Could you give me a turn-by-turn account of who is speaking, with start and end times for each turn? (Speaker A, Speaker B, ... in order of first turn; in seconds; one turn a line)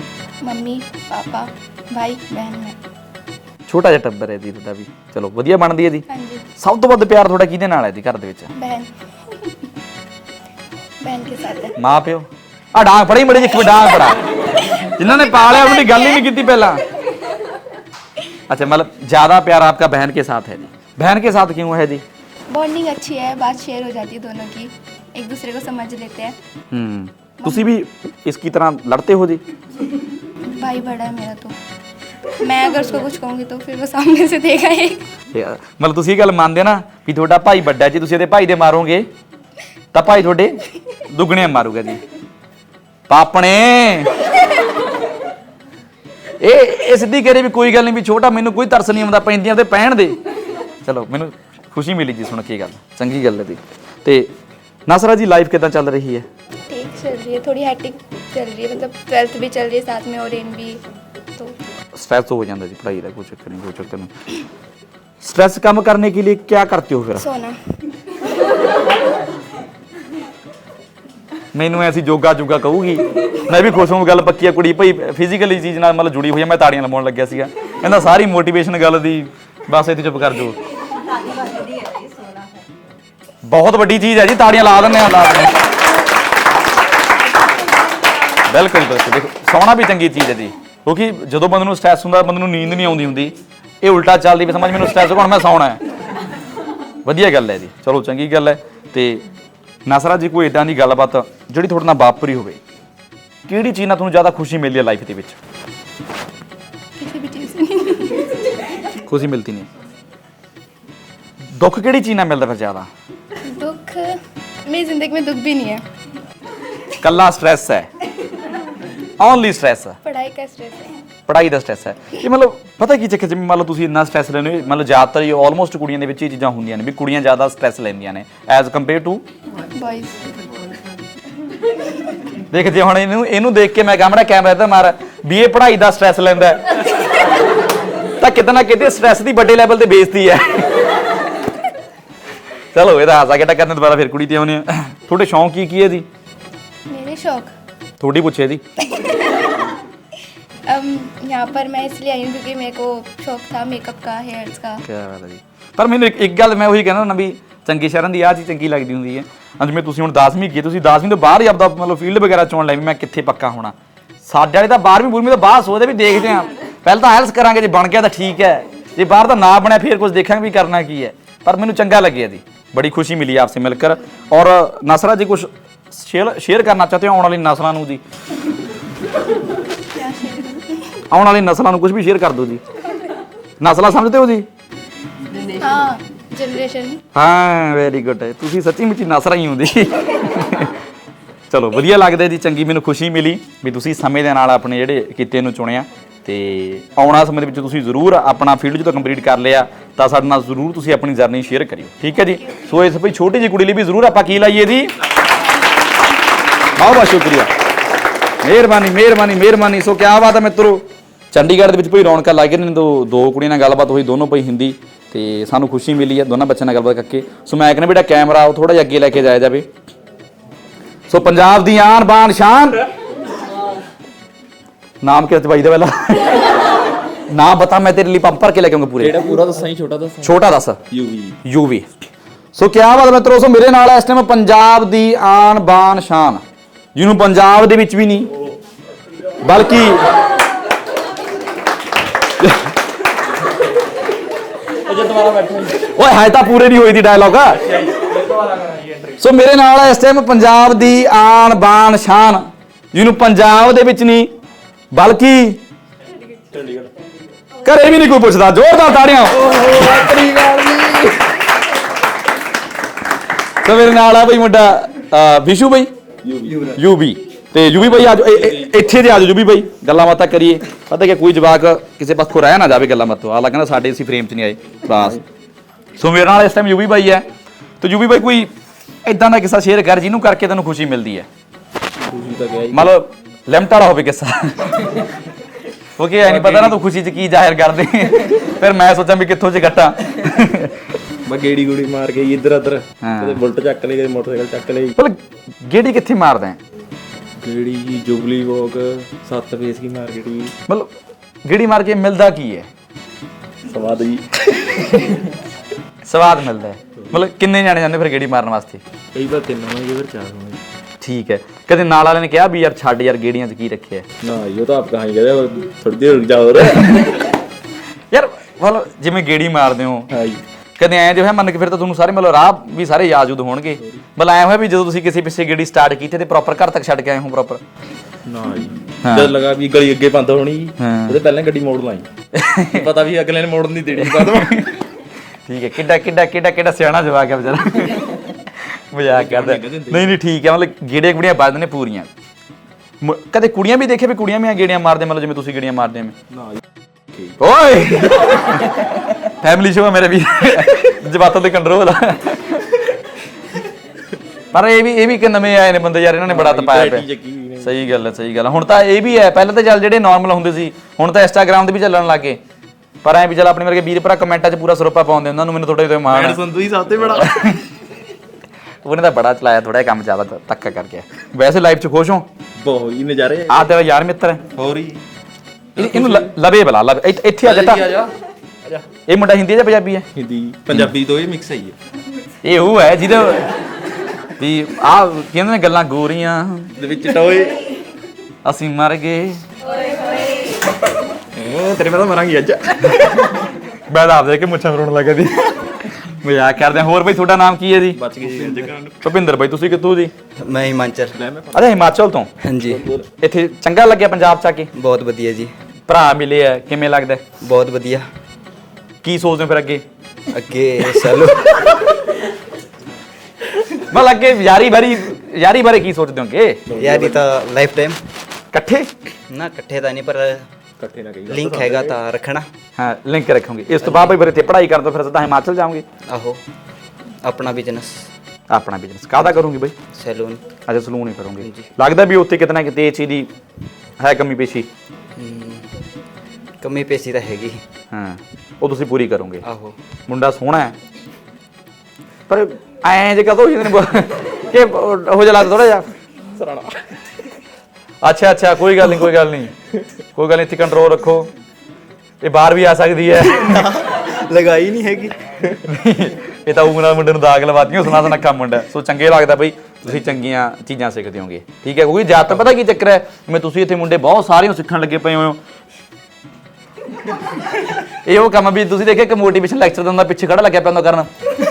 Speaker A: 0.4-2.7
Speaker B: 3.7-6.0
Speaker A: 6.1-6.4
Speaker B: 6.6-8.5
Speaker A: 8.6-8.9
Speaker A: 11.0-11.7
Speaker B: 11.8-16.8
Speaker A: 15.0-16.2
Speaker B: 18.5-22.0
Speaker A: 22.5-26.3
Speaker B: 26.7-29.4
Speaker A: 30.6-31.5
Speaker A: 32.4-35.0
Speaker B: 35.3-39.1
Speaker B: 39.9-40.6
Speaker B: 41.1-42.0
Speaker B: 43.1-44.1
Speaker B: 46.4-50.2
Speaker B: 50.8-54.3
Speaker B: 54.9-56.2
Speaker A: 56.7-60.8
Speaker B: 62.0-64.1
Speaker B: 65.2-67.2
Speaker A: 67.2-67.6
Speaker B: 71.5-80.6
Speaker B: 83.4-85.6
Speaker B: 88.5-95.8
Speaker B: 97.0-99.2
Speaker B: 99.8-102.6
Speaker B: 103.5-105.4
Speaker A: 107.0-108.2
Speaker B: 109.0-109.7
Speaker B: 111.5-112.9
Speaker A: 113.5-115.8
Speaker B: 117.0-117.9
Speaker B: 119.2-120.0
Speaker A: 120.0-120.9
Speaker B: 121.3-129.2
Speaker A: 129.7-130.5
Speaker B: 132.5-136.8
Speaker B: 138.2-140.7
Speaker B: 142.7-146.1
Speaker A: 146.9-147.5
Speaker B: 148.0-148.6
Speaker A: 148.9-149.5
Speaker A: 150.7-154.8
Speaker B: 154.8-163.7
Speaker B: 164.2-178.0
Speaker A: 179.9-181.0
Speaker B: 181.1-182.6
Speaker B: 183.6-184.4
Speaker A: 185.6-187.0
Speaker B: 187.1-190.7
Speaker B: 191.5-204.9
Speaker B: 206.8-207.5
Speaker B: 208.4-219.7
Speaker B: 221.1-222.8
Speaker B: 225.0-226.4
Speaker B: 227.3-229.2
Speaker C: 229.0-230.4
Speaker B: 230.2-230.8
Speaker C: 230.9-231.3
Speaker B: 231.4-231.9
Speaker B: 232.5-236.4
Speaker B: 236.9-238.3
Speaker B: 239.4-240.1
Speaker C: 244.9-245.8
Speaker B: 245.8-247.6
Speaker C: 247.7-249.1
Speaker B: 249.2-254.3
Speaker B: 254.9-255.6
Speaker C: 256.5-256.9
Speaker B: 257.6-261.2
Speaker B: 263.6-265.9
Speaker C: 266.2-266.8
Speaker B: 266.8-275.2
Speaker C: 267.9-268.7
Speaker B: 276.0-277.2
Speaker B: 277.8-278.5
Speaker B: 279.0-281.3
Speaker C: 282.1-282.9
Speaker B: 282.7-284.8
Speaker B: 286.0-290.8
Speaker C: 286.2-286.8
Speaker C: 291.3-294.9
Speaker B: 293.0-293.4
Speaker B: 294.9-296.6
Speaker C: 297.4-300.5
Speaker B: 301.4-302.7
Speaker C: 303.6-305.2
Speaker B: 306.1-308.8
Speaker C: 309.1-310.6
Speaker B: 311.0-314.1
Speaker C: 314.2-317.3
Speaker B: 318.1-320.1
Speaker C: 320.1-320.4
Speaker B: 320.8-327.6
Speaker C: 328.3-332.0
Speaker B: 329.0-329.3
Speaker B: 330.8-331.2
Speaker B: 332.3-332.8
Speaker C: 332.7-334.8
Speaker B: 334.0-334.7
Speaker B: 335.4-338.2
Speaker B: 338.9-342.1
Speaker C: 339.0-340.2
Speaker B: 343.0-346.1
Speaker B: 347.4-348.7
Speaker B: 349.4-352.6
Speaker B: 354.5-357.1
Speaker C: 356.2-357.8
Speaker B: 357.6-362.4
Speaker B: 363.0-366.4
Speaker C: 366.1-367.4
Speaker B: 367.1-367.6
Speaker B: 368.8-372.2
Speaker C: 372.6-373.6
Speaker B: 373.5-374.4
Speaker C: 374.5-375.0
Speaker C: 375.8-376.3
Speaker B: 375.8-377.9
Speaker C: 377.4-378.1
Speaker B: 379.1-380.0
Speaker C: 380.1-381.8
Speaker B: 382.4-383.4
Speaker B: 384.4-386.7
Speaker C: 386.8-387.6
Speaker B: 388.4-389.4
Speaker C: 391.3-393.4
Speaker B: 393.9-400.1
Speaker C: 397.9-399.0
Speaker D: 400.4-401.2
Speaker C: 401.2-401.7
Speaker B: 401.5-402.3
Speaker D: 402.4-402.9
Speaker C: 402.6-403.1
Speaker B: 403.2-404.7
Speaker D: 404.8-405.5
Speaker B: 405.9-407.2
Speaker D: 407.4-408.1
Speaker B: 409.0-409.8
Speaker D: 410.3-411.8
Speaker B: 413.9-416.6
Speaker C: 416.7-417.2
Speaker D: 416.7-418.0
Speaker B: 418.5-418.9
Speaker D: 419.3-420.4
Speaker C: 420.8-422.0
Speaker D: 421.3-422.4
Speaker B: 422.8-425.8
Speaker D: 423.8-424.1
Speaker D: 426.1-426.4
Speaker D: 427.2-428.1
Speaker B: 428.5-429.7
Speaker D: 429.9-430.4
Speaker B: 430.7-433.3
Speaker D: 431.4-431.7
Speaker B: 434.0-434.7
Speaker D: 435.1-435.7
Speaker D: 436.6-437.6
Speaker B: 437.9-439.4
Speaker D: 439.4-439.8
Speaker B: 440.1-440.8
Speaker B: 442.3-445.9
Speaker C: 446.3-446.8
Speaker B: 448.0-449.5
Speaker B: 450.1-451.3
Speaker B: 452.2-453.6
Speaker D: 453.3-455.2
Speaker B: 455.6-465.4
Speaker B: 468.0-471.1